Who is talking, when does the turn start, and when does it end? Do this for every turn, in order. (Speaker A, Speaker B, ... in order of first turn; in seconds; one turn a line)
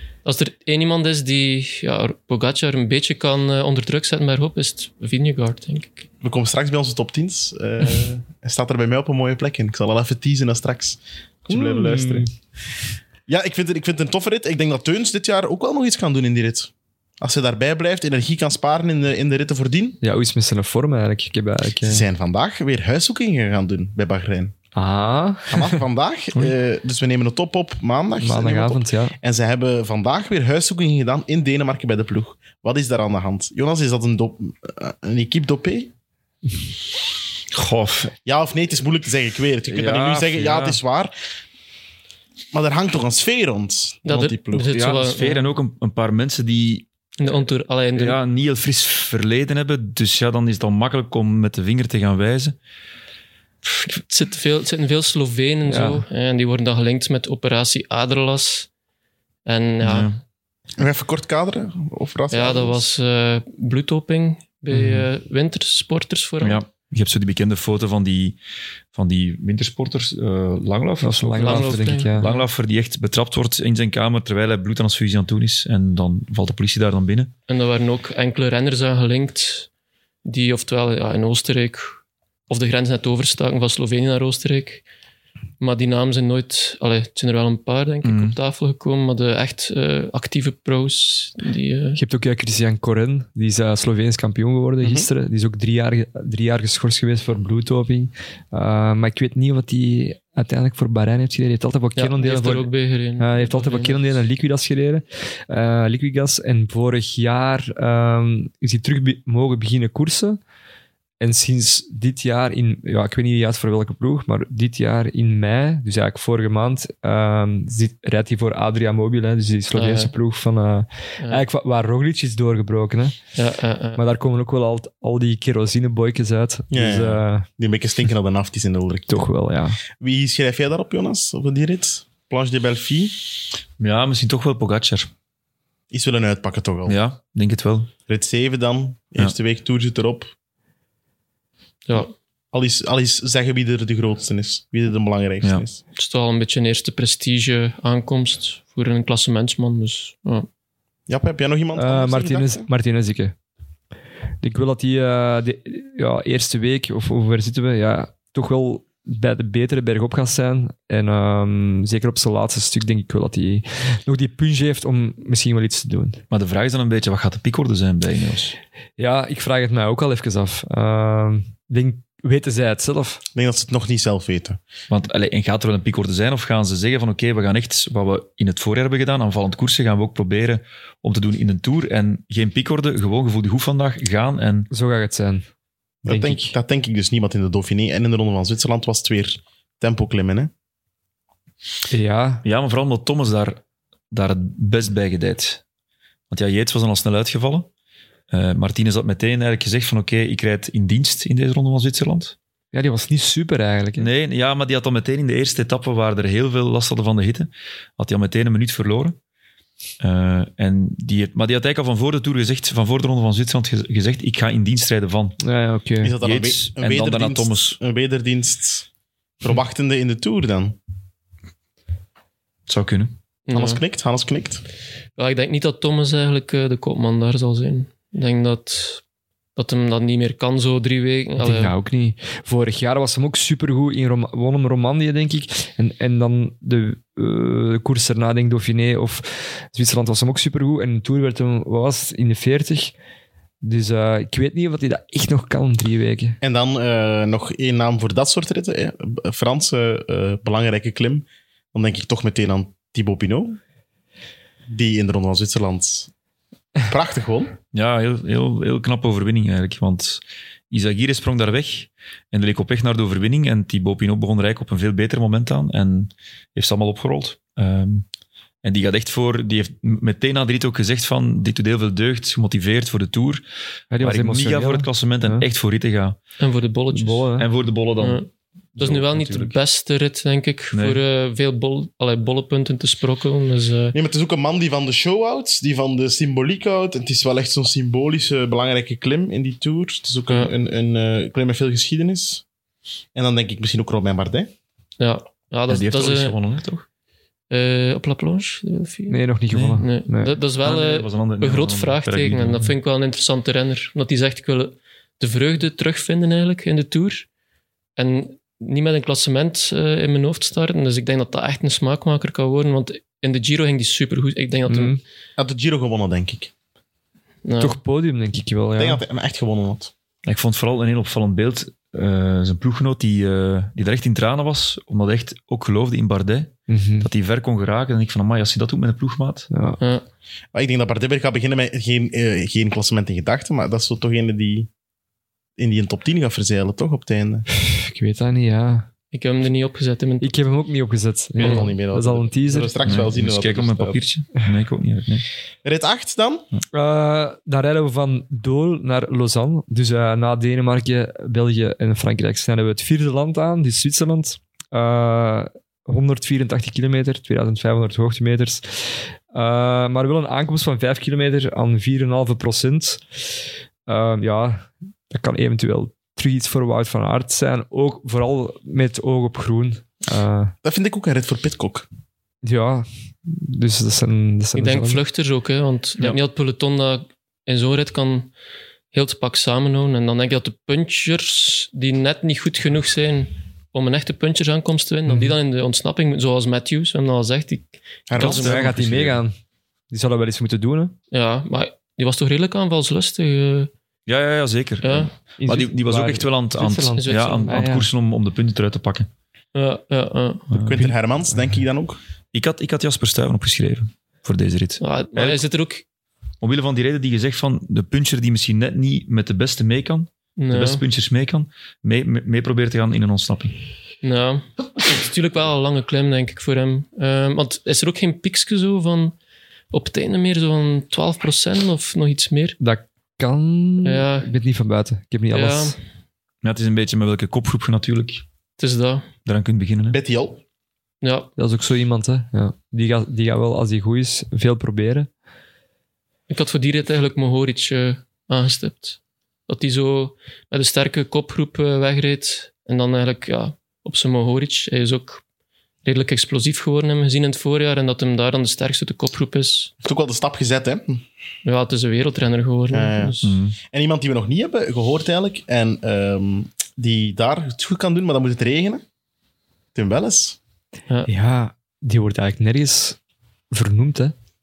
Speaker A: 0.2-6.0
Speaker B: 6.2-12.3
Speaker C: 11.5-12.3
Speaker B: 13.3-20.0
Speaker C: 20.0-22.1
Speaker B: 21.8-24.5
Speaker C: 24.7-25.8
Speaker B: 25.5-35.9
Speaker C: 28.2-29.1
Speaker D: 37.5-38.1
Speaker B: 38.2-41.1
Speaker D: 39.7-40.8
Speaker B: 42.5-44.7
Speaker A: 44.0-45.4
Speaker D: 44.7-46.9
Speaker A: 47.2-48.2
Speaker D: 48.0-52.5
Speaker A: 53.9-58.7
Speaker C: 55.7-56.0
Speaker A: 59.5-60.1
Speaker D: 59.8-60.2
Speaker B: 60.8-62.9
Speaker A: 62.3-66.6
Speaker C: 64.7-65.0
Speaker D: 66.4-68.4
Speaker D: 68.9-77.3
Speaker C: 71.0-72.3
Speaker A: 71.4-72.5
Speaker A: 77.5-79.7
Speaker A: 80.2-84.8
Speaker A: 85.6-92.0
Speaker D: 88.0-88.3
Speaker C: 92.0-110.4
Speaker B: 94.8-95.1
Speaker A: 102.0-104.1
Speaker C: 111.2-123.2
Speaker A: 119.7-120.1
Speaker A: 123.3-124.0
Speaker C: 124.0-127.5
Speaker B: 126.7-129.2
Speaker C: 129.1-129.8
Speaker B: 130.0-133.1
Speaker D: 133.8-135.1
Speaker B: 135.9-136.9
Speaker D: 136.8-137.9
Speaker B: 138.1-140.3
Speaker B: 142.0-145.8
Speaker A: 145.9-150.5
Speaker B: 151.1-152.7
Speaker C: 151.8-153.3
Speaker C: 154.4-166.2
Speaker D: 166.3-168.5
Speaker C: 169.0-173.2
Speaker B: 173.3-174.6
Speaker D: 174.9-184.7
Speaker C: 184.7-185.4
Speaker B: 186.0-190.5
Speaker C: 186.1-186.5
Speaker C: 191.9-192.4
Speaker D: 192.4-193.6
Speaker D: 194.1-195.6
Speaker D: 196.3-197.7
Speaker D: 198.3-202.3
Speaker C: 202.7-204.1
Speaker D: 204.0-209.2
Speaker D: 210.0-215.4
Speaker C: 215.4-216.1
Speaker B: 216.0-218.8
Speaker D: 216.2-217.8
Speaker B: 219.4-220.8
Speaker D: 222.7-223.1
Speaker A: 223.5-223.8
Speaker B: 223.5-224.6
Speaker A: 225.2-229.0
Speaker A: 229.6-231.7
Speaker C: 231.4-242.9
Speaker C: 243.6-246.4
Speaker B: 246.4-253.6
Speaker B: 254.7-256.1
Speaker B: 256.9-257.5
Speaker D: 257.7-268.0
Speaker D: 268.6-273.4
Speaker C: 273.9-275.4
Speaker D: 274.0-276.2
Speaker A: 276.4-277.3
Speaker C: 276.9-277.5
Speaker D: 277.4-278.2
Speaker A: 278.0-283.9
Speaker D: 278.8-279.6
Speaker D: 280.7-281.0
Speaker B: 283.9-292.4
Speaker B: 293.1-294.5
Speaker A: 295.0-296.4
Speaker D: 295.7-296.8
Speaker A: 297.5-299.2
Speaker C: 299.1-300.3
Speaker D: 299.5-299.8
Speaker A: 299.8-307.3
Speaker D: 300.6-302.7
Speaker A: 308.0-315.0
Speaker C: 314.7-315.0
Speaker B: 315.4-316.5
Speaker A: 317.4-317.8
Speaker C: 317.6-319.0
Speaker B: 318.8-319.9
Speaker D: 320.2-329.5
Speaker C: 326.7-327.1
Speaker C: 329.5-329.8
Speaker A: 329.8-330.0
Speaker B: 330.5-334.7
Speaker B: 335.6-337.4
Speaker C: 337.5-338.9
Speaker A: 339.1-340.4
Speaker C: 340.2-342.8
Speaker B: 341.4-344.0
Speaker A: 341.4-341.7
Speaker D: 342.8-345.2
Speaker B: 345.6-346.4
Speaker C: 346.7-363.0
Speaker C: 363.9-370.5
Speaker B: 370.6-371.9
Speaker C: 372.4-375.0
Speaker A: 374.5-378.3
Speaker A: 378.9-388.6
Speaker C: 385.1-385.3
Speaker B: 388.1-388.6
Speaker D: 388.2-389.2
Speaker C: 388.2-389.3
Speaker C: 389.9-390.9
Speaker A: 391.1-393.7
Speaker D: 394.1-399.1
Speaker A: 394.8-395.1
Speaker C: 395.4-397.9
Speaker A: 397.0-397.6
Speaker A: 399.5-400.5
Speaker D: 400.5-400.8
Speaker B: 400.5-402.0
Speaker D: 402.3-405.4
Speaker A: 404.8-405.8
Speaker D: 406.4-413.5
Speaker A: 410.4-410.8
Speaker A: 414.0-419.1
Speaker A: 419.7-422.6
Speaker C: 422.6-425.8
Speaker A: 423.8-424.3
Speaker A: 425.3-425.8
Speaker D: 426.4-428.2
Speaker A: 428.6-429.1
Speaker D: 429.2-430.0
Speaker B: 429.9-430.4
Speaker A: 431.0-431.3
Speaker C: 431.4-435.1
Speaker A: 436.3-445.2
Speaker A: 445.8-449.7
Speaker B: 449.8-451.0
Speaker A: 451.4-453.4
Speaker B: 452.7-458.8
Speaker D: 453.2-453.6
Speaker B: 459.7-460.4
Speaker C: 461.1-463.0
Speaker C: 463.5-464.1